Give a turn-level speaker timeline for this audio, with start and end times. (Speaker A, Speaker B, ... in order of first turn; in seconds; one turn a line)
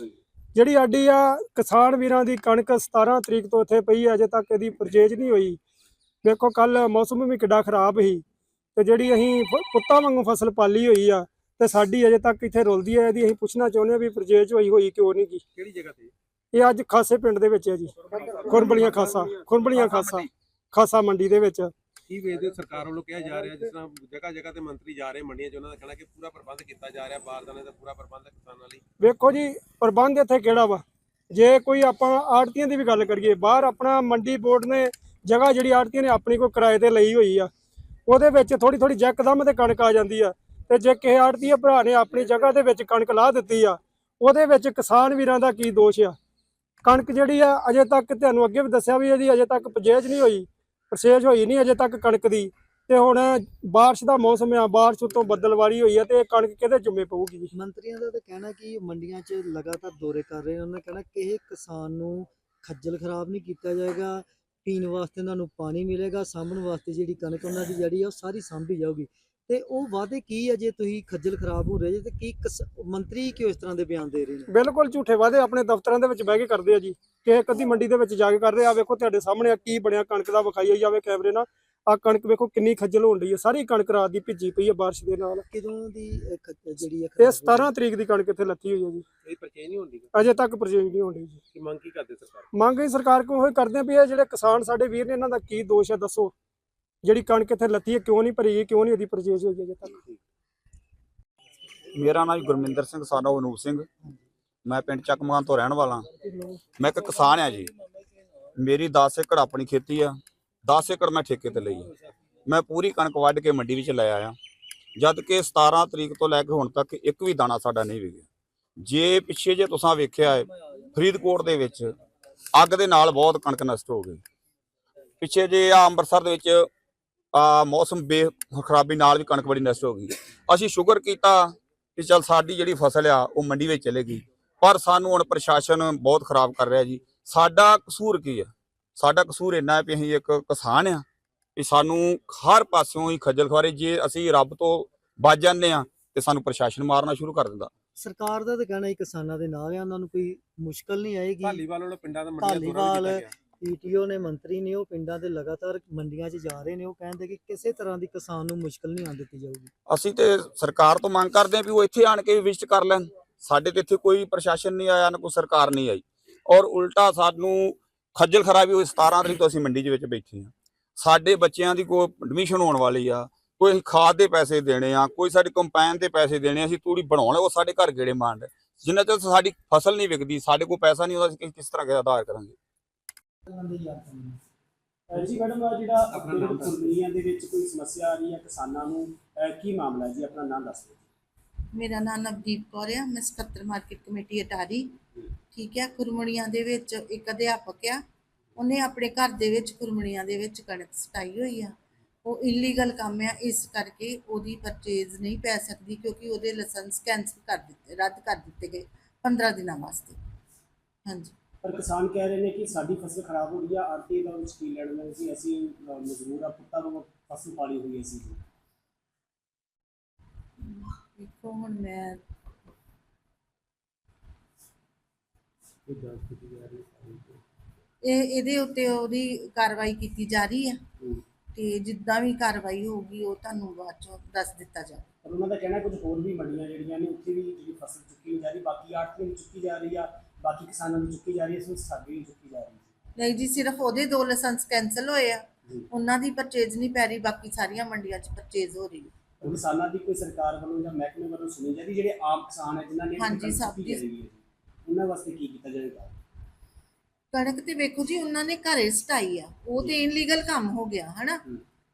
Speaker A: 0.5-5.6
Speaker A: 6.2-8.2
Speaker A: 8.7-15.4
Speaker B: 15.5-16.1
Speaker A: 16.5-21.7
Speaker B: 18.1-20.2
Speaker B: 22.1-28.8
Speaker A: 29.0-37.5
Speaker A: 38.0-46.1
Speaker A: 46.8-57.5
Speaker C: 57.5-74.5
Speaker A: 74.5-85.4
Speaker C: 85.5-87.7
Speaker A: 87.2-89.0
Speaker B: 89.2-90.1
Speaker A: 90.1-91.4
Speaker B: 91.5-92.5
Speaker A: 92.5-96.3
Speaker A: 97.0-100.0
Speaker D: 101.9-103.9
Speaker D: 104.7-106.0
Speaker D: 106.8-107.7
Speaker D: 108.6-111.9
Speaker D: 112.5-114.3
Speaker D: 115.0-118.2
Speaker D: 118.8-121.9
Speaker D: 122.5-124.2
Speaker D: 125.2-126.7
Speaker D: 127.3-141.0
Speaker D: 141.6-147.7
Speaker C: 147.9-151.6
Speaker B: 151.4-153.3
Speaker C: 152.4-159.7
Speaker D: 159.9-182.6
Speaker C: 183.5-184.4
Speaker E: 185.1-191.0
Speaker B: 186.1-187.1
Speaker F: 191.7-194.9
Speaker F: 195.5-198.0
Speaker F: 198.6-201.7
Speaker F: 202.2-210.2
Speaker F: 211.1-211.3
Speaker E: 211.6-218.4
Speaker F: 220.6-222.2
Speaker B: 225.9-227.4
Speaker F: 228.0-230.8
Speaker F: 231.5-235.1
Speaker E: 235.2-242.9
Speaker F: 243.2-249.1
Speaker E: 249.4-256.1
Speaker F: 253.2-254.0
Speaker F: 257.3-261.4